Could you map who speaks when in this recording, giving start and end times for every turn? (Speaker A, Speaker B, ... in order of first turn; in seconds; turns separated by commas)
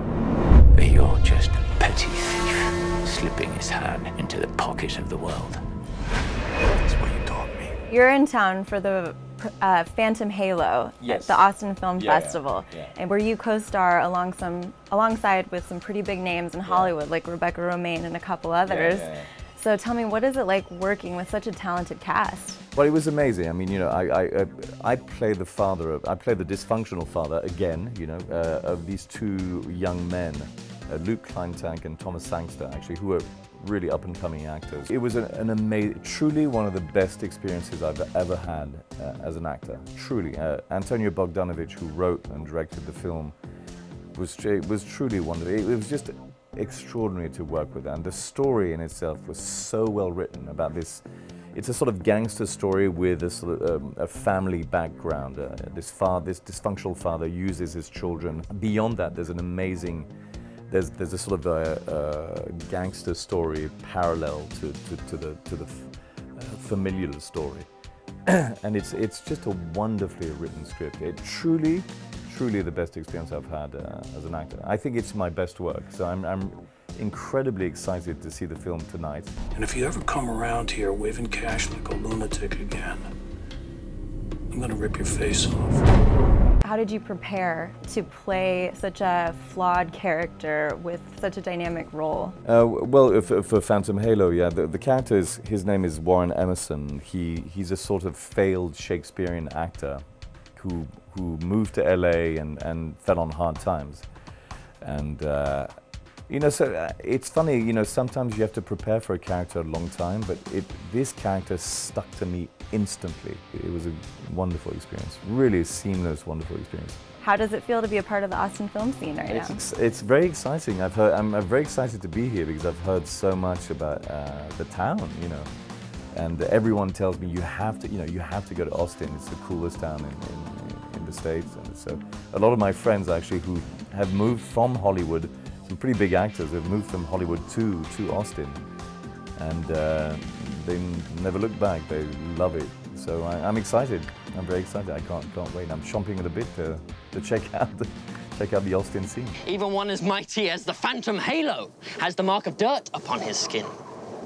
Speaker A: 0.8-5.6, Speaker A: 6.7-7.7, Speaker B: 7.9-22.6, Speaker C: 11.0-11.4, Speaker C: 12.0-12.9, Speaker C: 16.6-16.9, Speaker C: 18.7-19.3, Speaker C: 22.7-43.3, Speaker C: 44.1-60.1, Speaker C: 60.7-67.7, Speaker C: 68.3-79.3, Speaker D: 79.5-83.1, Speaker D: 84.5-85.8, Speaker B: 86.6-92.3, Speaker C: 92.4-100.0, Speaker C: 100.5-104.1, Speaker C: 104.8-105.7, Speaker C: 106.3-117.0, Speaker B: 117.2-119.6, Speaker C: 119.3-125.5, Speaker C: 126.1-138.6, Speaker C: 139.4-149.4, Speaker E: 149.4-153.7